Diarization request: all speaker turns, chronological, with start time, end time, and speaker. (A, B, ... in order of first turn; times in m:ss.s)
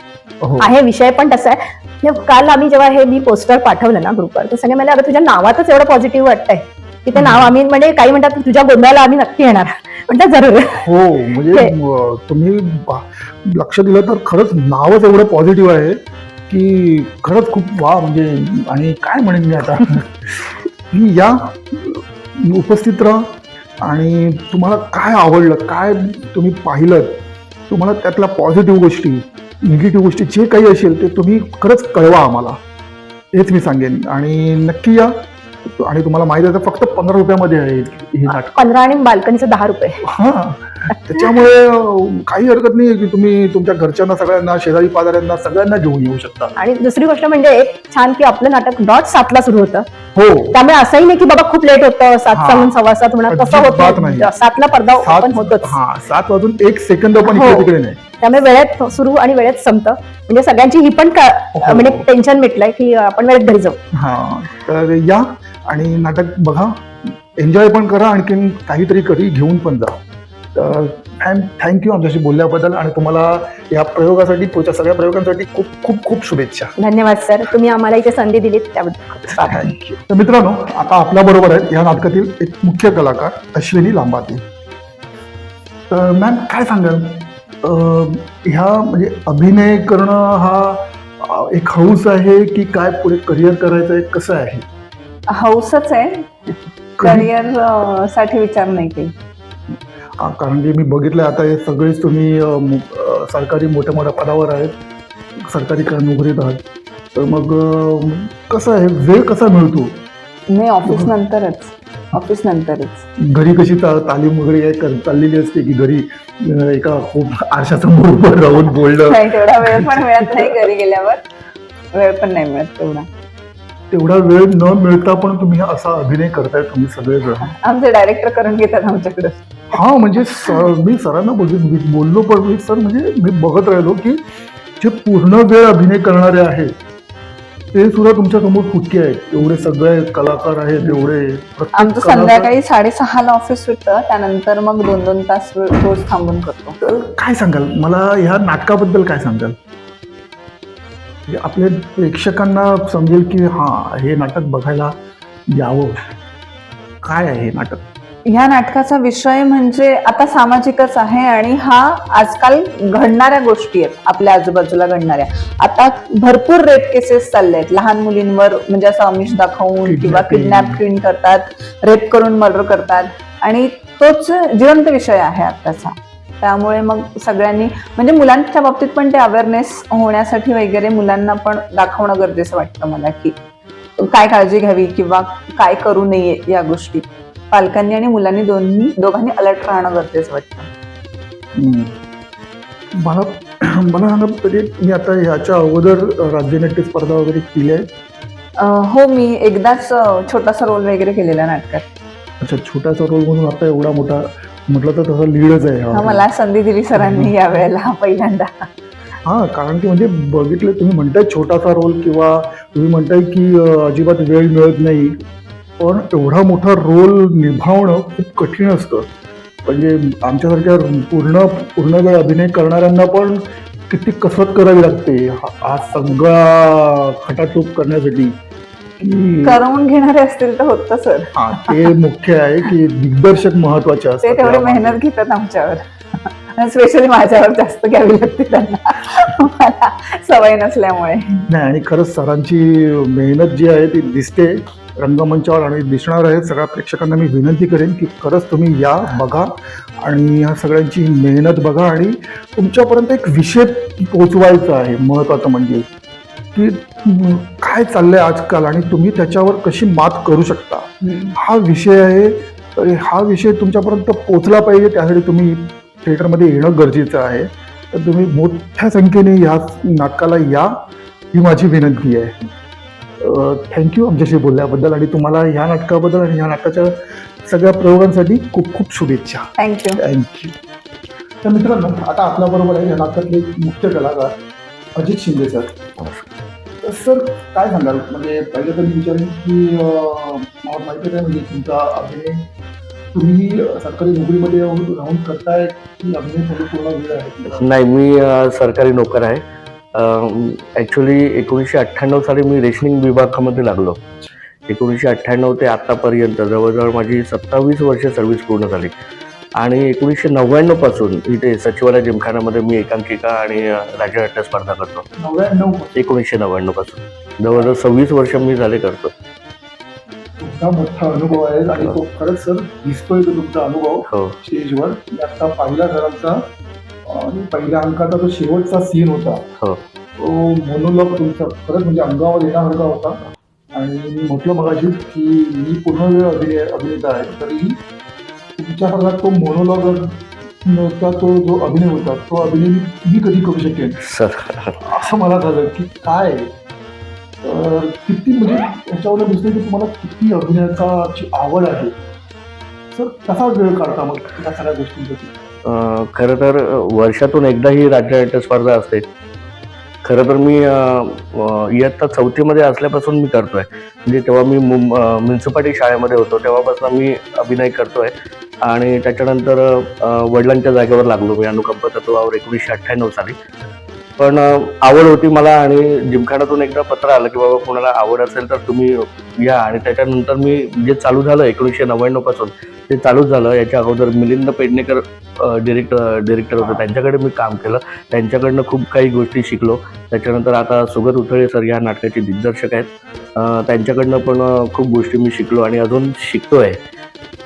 0:00.4-0:00.7 A
0:00.6-0:10.8 B
0:07.2-0:07.5 A
0:10.7-0:32.6 A
0:33.3-0:38.6 A
0:38.3-0:40.1 B
0:40.0-0:46.5 A
0:46.6-0:49.9 B
0:50.1-0:50.5 A
0:50.5-0:55.8 B
0:52.3-0:52.7 A
0:53.3-0:54.3 A
0:55.0-0:58.0 A
0:57.2-0:57.7 B
0:58.2-1:03.8 B
1:01.6-1:02.1 A
1:03.9-1:10.0 A
1:10.5-1:16.7 A
1:16.8-1:19.9 B
1:19.4-1:24.4 A
1:25.9-1:34.6 A
1:35.3-1:36.3 C
1:37.0-1:37.3 A
1:37.0-1:39.1 C
1:40.2-1:44.7 A
1:45.4-1:46.6 A
1:47.1-1:50.0 A
1:50.5-1:53.0 C
1:50.8-1:51.1 A
1:53.2-2:00.6 A
1:59.0-2:01.2 C
2:01.9-2:03.1 C
2:03.9-2:07.5 A
2:07.4-2:09.8 C
2:09.7-2:14.2 A
2:14.8-2:16.7 A
2:17.7-2:22.5 A
2:21.8-2:26.8 C
2:26.8-2:29.6 A
2:31.3-2:35.0 A
2:35.5-2:36.0 A
2:37.0-2:37.8 A
2:38.3-3:03.4 C
2:49.8-2:50.8 A
3:04.0-3:10.7 C
3:11.6-3:11.9 A
3:12.9-3:17.9 A
3:18.6-3:21.8 C
3:22.4-3:26.2 A
3:25.9-3:28.7 C
3:26.9-3:27.6 A
3:29.2-3:35.2 A
3:35.8-3:39.1 A
3:39.6-3:48.4 A
3:49.0-3:49.6 A
3:49.4-3:51.9 C
3:51.3-3:55.0 A
3:54.2-4:01.4 C
4:01.5-4:15.9 A
4:16.5-4:30.8 A
4:21.0-4:21.3 C
4:31.3-4:32.5 A
4:33.2-4:40.5 A
4:39.6-4:40.0 C
4:41.4-4:44.3 A
4:45.0-4:45.8 A
4:46.0-4:46.2 D
4:46.8-4:52.5 A
4:53.1-4:57.7 A
4:57.5-4:59.4 D
4:59.9-5:04.0 D
5:04.7-5:08.9 D
5:09.6-5:15.1 D
5:15.2-5:15.9 A
5:16.0-5:19.1 D
5:20.4-5:26.4 A
5:24.1-5:24.3 D
5:27.0-5:29.5 A
5:30.2-5:37.8 A
5:38.6-5:44.0 A
5:44.0-5:44.8 D
5:44.8-5:46.5 A
5:47.4-5:51.9 A
5:52.9-5:55.3 A
5:55.6-5:59.0 D
6:00.0-6:08.1 D
6:08.6-6:13.3 D
6:14.2-6:36.8 D
6:26.6-6:26.8 A